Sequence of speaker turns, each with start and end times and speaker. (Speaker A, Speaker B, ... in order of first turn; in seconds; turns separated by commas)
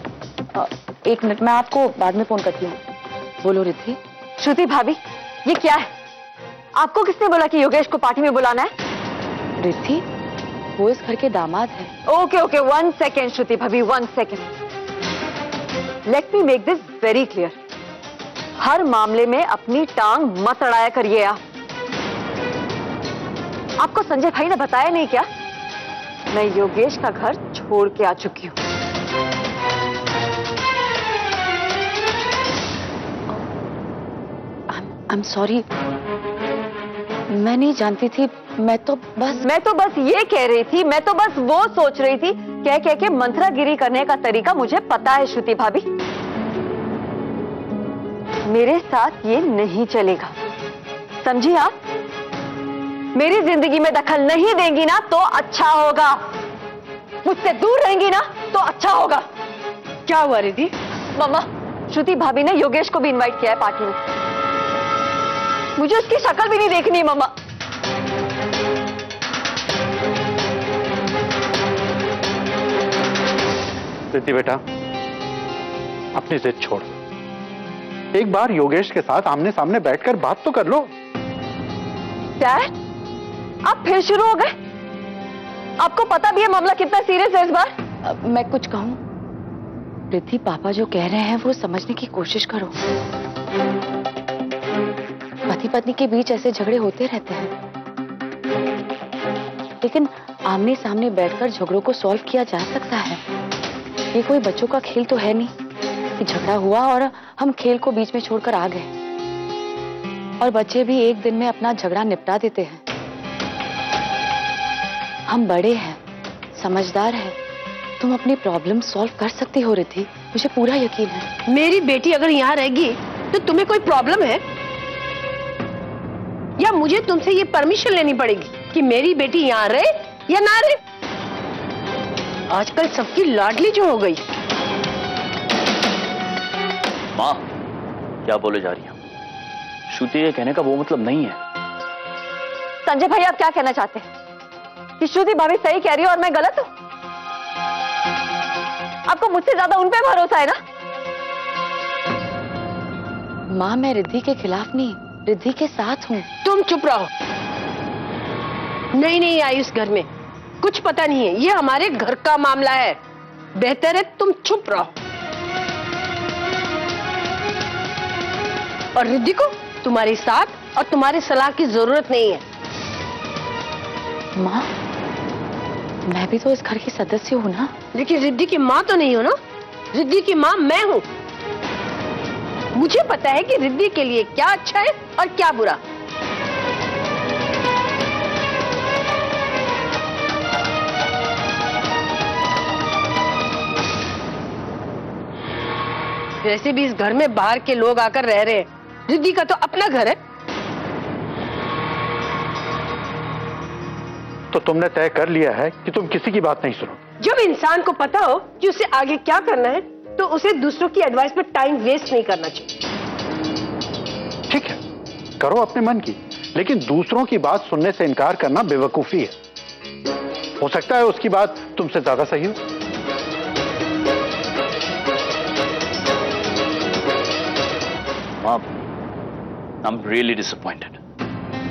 Speaker A: 0.5-2.8, Speaker A: 3.4-4.0, Speaker B: 4.4-5.9, Speaker B: 6.8-8.7, Speaker A: 9.6-10.0, Speaker A: 10.8-11.9, Speaker B: 12.1-14.5, Speaker B: 16.1-17.6, Speaker B: 18.6-21.4, Speaker B: 23.8-25.2, Speaker B: 26.3-28.6, Speaker A: 34.7-35.6, Speaker A: 37.3-39.5, Speaker B: 39.4-45.8, Speaker B: 48.5-50.3, Speaker B: 51.2-51.7, Speaker B: 53.1-56.3, Speaker B: 57.2-59.2, Speaker C: 60.1-60.7, Speaker B: 61.1-64.0, Speaker B: 65.8-67.3, Speaker D: 74.1-74.6, Speaker D: 76.1-76.9, Speaker D: 78.1-80.9, Speaker B: 82.4-82.7, Speaker B: 83.6-84.5, Speaker B: 85.8-87.7, Speaker A: 88.0-89.0, Speaker A: 90.1-92.7, Speaker A: 95.5-97.5, Speaker A: 99.8-103.2, Speaker A: 104.1-105.5, Speaker A: 106.2-108.9, Speaker A: 110.4-112.8, Speaker A: 115.3-116.0, Speaker A: 116.5-117.4, Speaker A: 118.0-121.3, Speaker C: 121.5-124.4, Speaker C: 126.6-130.8, Speaker C: 132.5-134.2, Speaker E: 137.1-137.4, Speaker E: 138.2-138.9, Speaker E: 139.9-141.4, Speaker B: 142.8-144.1, Speaker B: 145.0-146.7, Speaker B: 149.1-150.6, Speaker A: 153.5-156.3, Speaker C: 156.4-157.1, Speaker C: 158.9-160.1, Speaker C: 160.6-163.0, Speaker C: 163.6-164.9, Speaker C: 168.9-172.4, Speaker A: 174.4-174.7, Speaker A: 176.1-177.7, Speaker C: 177.9-179.3, Speaker C: 179.9-181.0, Speaker C: 182.7-185.8, Speaker C: 196.4-200.2, Speaker D: 204.5-207.0, Speaker C: 207.2-212.7, Speaker D: 214.5-214.8, Speaker D: 215.4-219.3, Speaker D: 220.6-222.6, Speaker E: 228.4-228.8, Speaker E: 229.8-231.0